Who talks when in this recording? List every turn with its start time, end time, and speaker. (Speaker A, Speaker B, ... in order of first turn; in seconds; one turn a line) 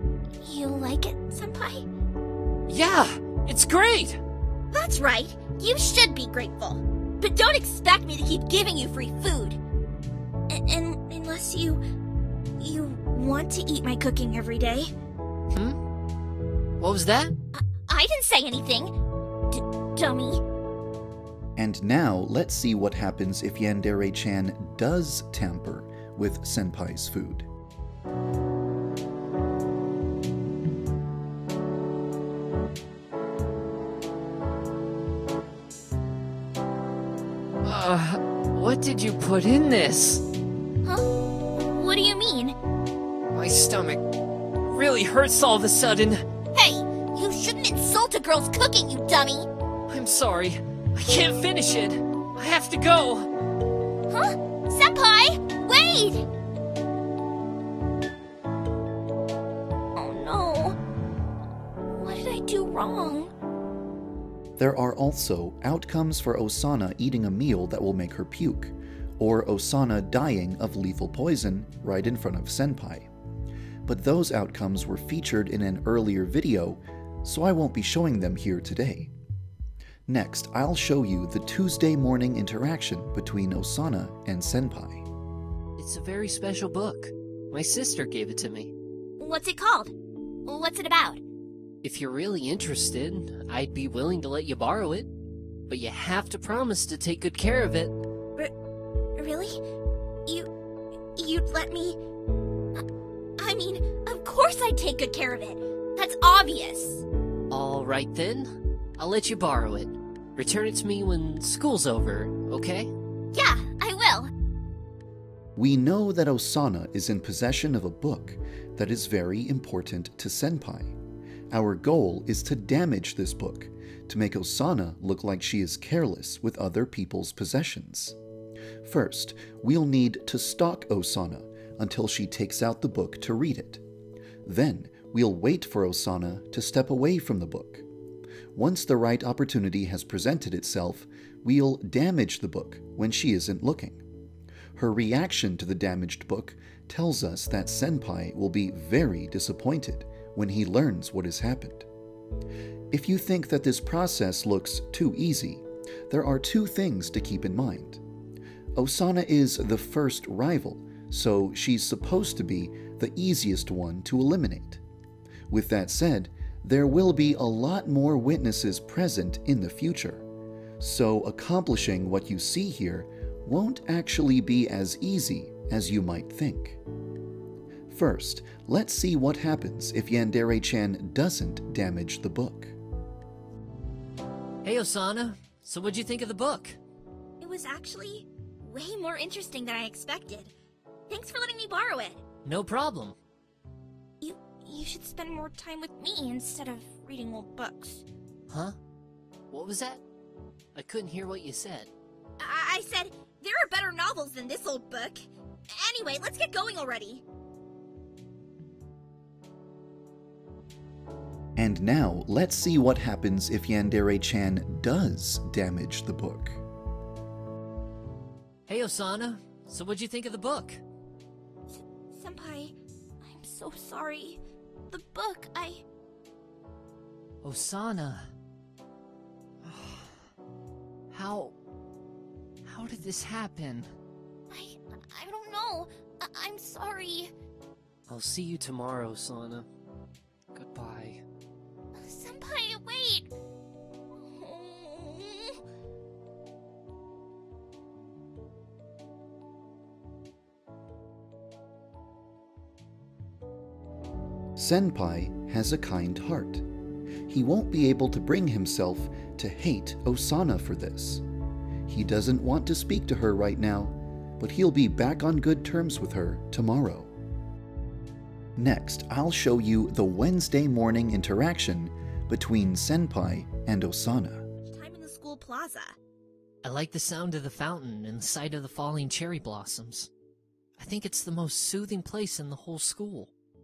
Speaker A: 0.4-1.9
Speaker B: 2.7-4.2
Speaker A: 4.7-9.6
Speaker A: 10.5-11.8
Speaker A: 12.6-14.9
Speaker B: 15.5-15.8
Speaker B: 16.8-17.4
Speaker A: 17.5-18.9
Speaker A: 19.5-20.4
Speaker C: 21.6-27.4
Speaker B: 37.6-40.2
Speaker A: 40.8-42.6
Speaker B: 43.3-44.0
Speaker B: 44.6-46.2
Speaker A: 46.5-49.5
Speaker B: 49.9-53.3
Speaker A: 54.1-56.2
Speaker A: 60.0-60.8
Speaker A: 61.9-63.3
Speaker C: 64.6-73.1
Speaker C: 73.8-79.1
Speaker C: 80.1-85.0
Speaker B: 85.8-88.7
Speaker A: 89.2-89.9
Speaker A: 90.5-91.2
Speaker B: 91.8-95.1
Speaker B: 95.7-98.0
Speaker A: 99.2-99.6
Speaker A: 101.2-102.0
Speaker A: 103.4-107.0
Speaker B: 107.5-112.9
Speaker A: 113.3-114.3
Speaker C: 115.5-120.9
Speaker C: 121.5-128.2
Speaker C: 128.8-133.8
Speaker C: 134.4-137.8
Speaker C: 138.5-144.0
Speaker C: 144.8-151.9
Speaker C: 152.9-158.0
Speaker C: 158.8-164.8
Speaker C: 165.5-170.2
Speaker C: 170.8-176.8
Speaker C: 177.9-182.7
Speaker B: 184.6-186.8
Speaker A: 187.4-190.5
Speaker A: 191.1-192.2
Speaker B: 192.4-193.2
Speaker A: 194.2-198.1
Speaker B: 198.5-198.8
Speaker B: 199.5-200.0
Speaker B: 200.7-201.9
Speaker A: 202.4-207.2
Speaker C: 211.6-216.6
Speaker B: 218.7-220.8
Speaker A: 221.7-225.8
Speaker B: 227.4-228.3
Speaker B: 229.6-230.3
Speaker B: 231.1-231.5
Speaker B: 232.6-233.9
Speaker A: 234.5-237.3
Speaker B: 238.1-239.7
Speaker B: 240.5-241.2
Speaker A: 241.9-243.3
Speaker A: 244.1-245.6
Speaker C: 254.6-256.6
Speaker C: 257.3-261.2
Speaker C: 261.9-267.1
Speaker C: 268.6-274.4
Speaker A: 274.6-275.9
Speaker B: 276.6-280.1
Speaker B: 280.8-283.3